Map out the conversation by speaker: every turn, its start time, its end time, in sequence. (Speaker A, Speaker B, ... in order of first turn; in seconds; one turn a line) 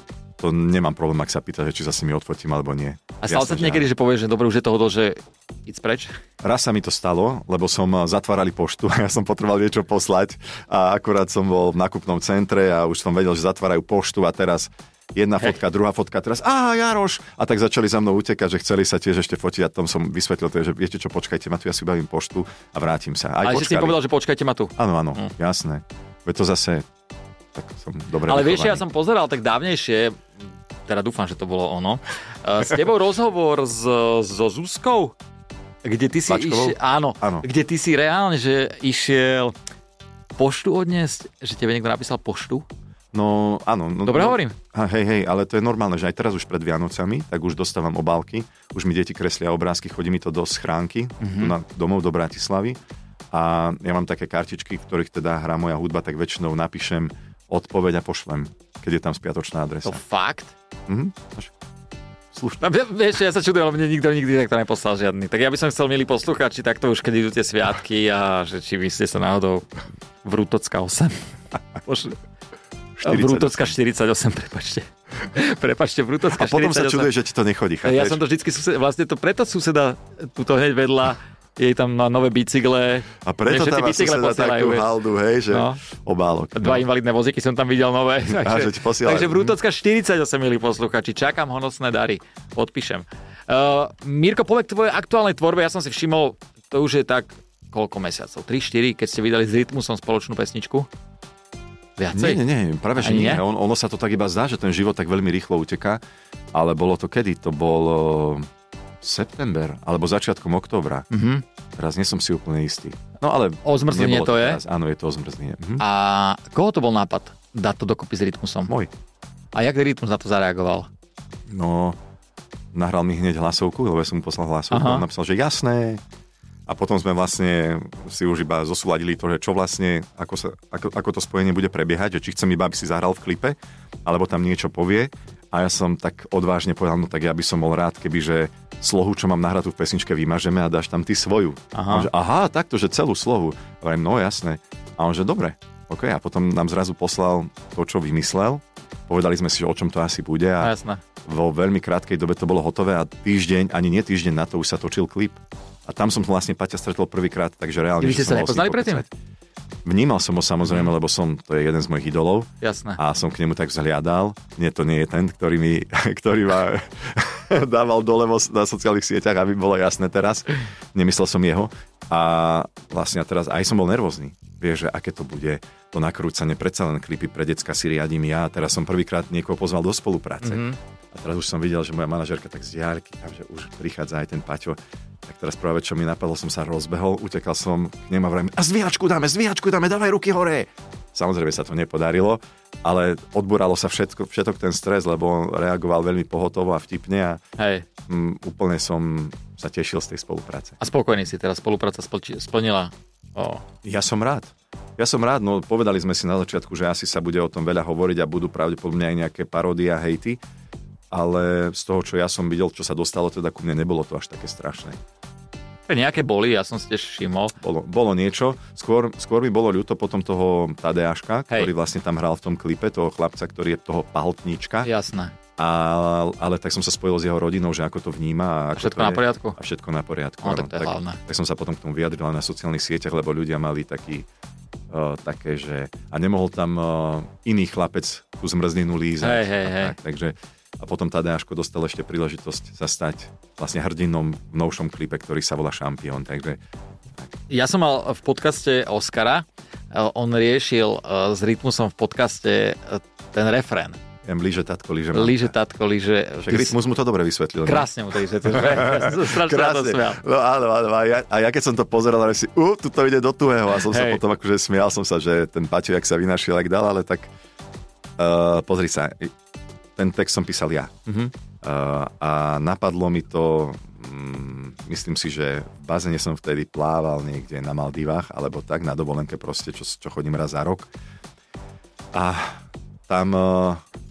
Speaker A: 0.4-3.9
Speaker B: 3.2-6.2
Speaker A: 6.4-24.0
Speaker B: 23.4-25.3
Speaker A: 24.8-26.9
Speaker A: 27.5-28.8
Speaker B: 28.3-30.3
Speaker B: 30.9-35.1
Speaker B: 35.8-39.5
Speaker A: 36.3-37.5
Speaker B: 40.4-42.6
Speaker A: 43.1-52.8
Speaker B: 44.0-44.5
Speaker B: 51.2-51.5
Speaker A: 53.3-60.0
Speaker B: 59.8-60.5
Speaker A: 60.9-61.5
Speaker A: 62.3-62.6
Speaker B: 62.6-69.7
Speaker B: 70.2-71.2
Speaker B: 71.8-72.2
Speaker A: 73.0-73.7
Speaker B: 73.0-77.1
Speaker A: 76.3-78.2
Speaker B: 77.8-84.9
Speaker A: 83.2-86.8
Speaker B: 85.5-85.8
Speaker B: 86.5-100.9
Speaker A: 88.3-89.5
Speaker B: 102.0-102.4
Speaker A: 102.1-106.0
Speaker B: 103.0-103.4
Speaker A: 106.5-108.5
Speaker A: 109.0-111.0
Speaker B: 111.1-111.4
Speaker A: 111.8-115.8
Speaker B: 113.6-114.6
Speaker B: 115.8-118.7
Speaker B: 119.5-120.9
Speaker A: 121.5-122.0
Speaker A: 122.7-126.0
Speaker B: 124.7-125.0
Speaker A: 126.7-159.1
Speaker B: 141.7-142.1
Speaker B: 150.6-151.0
Speaker B: 158.0-159.0
Speaker A: 159.8-197.4
Speaker B: 162.6-163.0
Speaker B: 180.4-180.8
Speaker B: 197.6-197.8
Speaker A: 198.1-200.8
Speaker B: 200.8-203.6
Speaker A: 203.8-210.4
Speaker A: 211.1-215.0
Speaker B: 215.9-217.5
Speaker A: 217.6-224.9
Speaker B: 224.8-225.3
Speaker A: 225.6-234.3
Speaker B: 228.7-229.6
Speaker B: 230.4-231.2
Speaker A: 234.9-246.6
Speaker B: 239.2-239.9
Speaker B: 247.5-254.0
Speaker A: 254.2-255.5
Speaker B: 255.1-256.7
Speaker A: 256.4-257.9
Speaker B: 257.6-260.2
Speaker A: 258.4-267.3
Speaker B: 263.8-264.2
Speaker A: 268.2-269.3
Speaker A: 269.9-270.9
Speaker B: 271.1-271.3
Speaker A: 271.6-280.9
Speaker A: 282.1-283.8